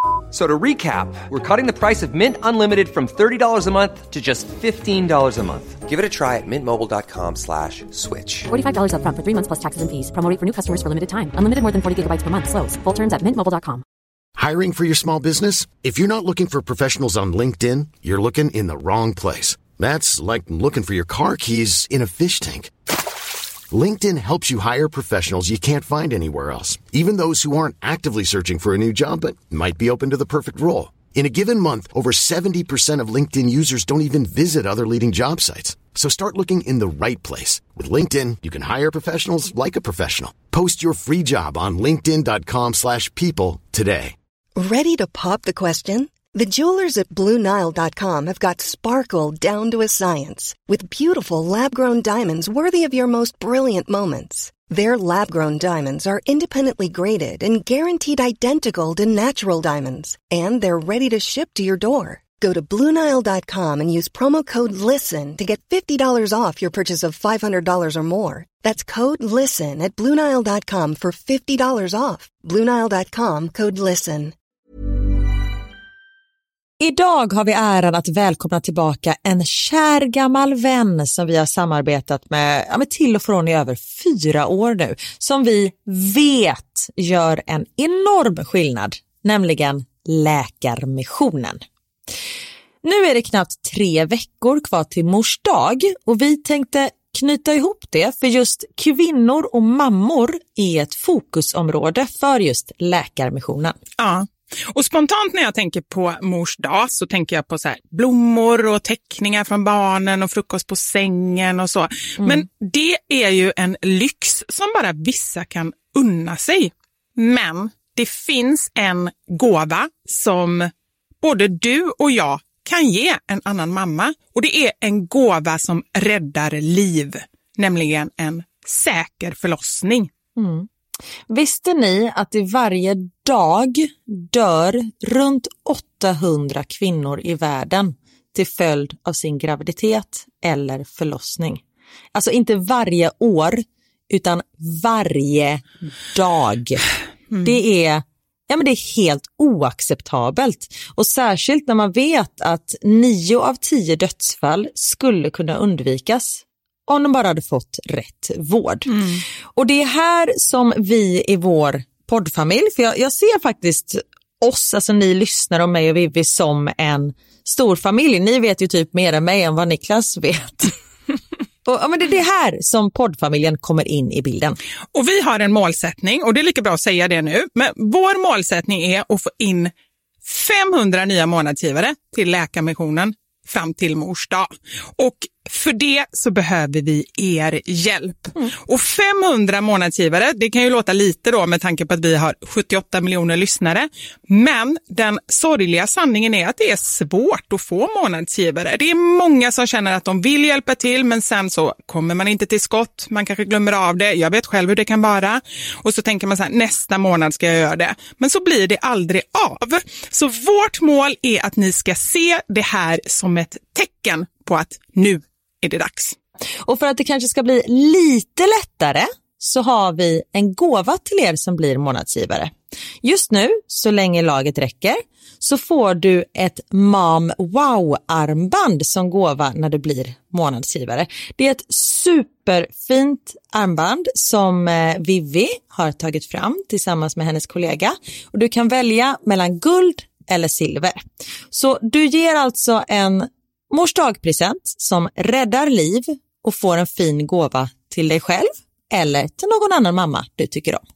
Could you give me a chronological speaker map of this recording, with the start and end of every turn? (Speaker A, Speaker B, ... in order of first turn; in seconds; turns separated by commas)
Speaker A: 0.3-8.5, Speaker B: 8.5-13.8, Speaker C: 14.4-22.7, Speaker C: 23.7-44.1, Speaker D: 44.5-74.3, Speaker E: 76.8-91.6, Speaker E: 92.8-103.8, Speaker F: 104.0-120.7, Speaker E: 112.2-112.5, Speaker F: 121.2-130.1, Speaker E: 130.3-130.7, Speaker E: 131.3-141.6, Speaker E: 142.1-170.7, Speaker E: 171.6-174.6, Speaker F: 174.9-179.7, Speaker F: 180.2-216.2, Speaker E: 216.6-250.8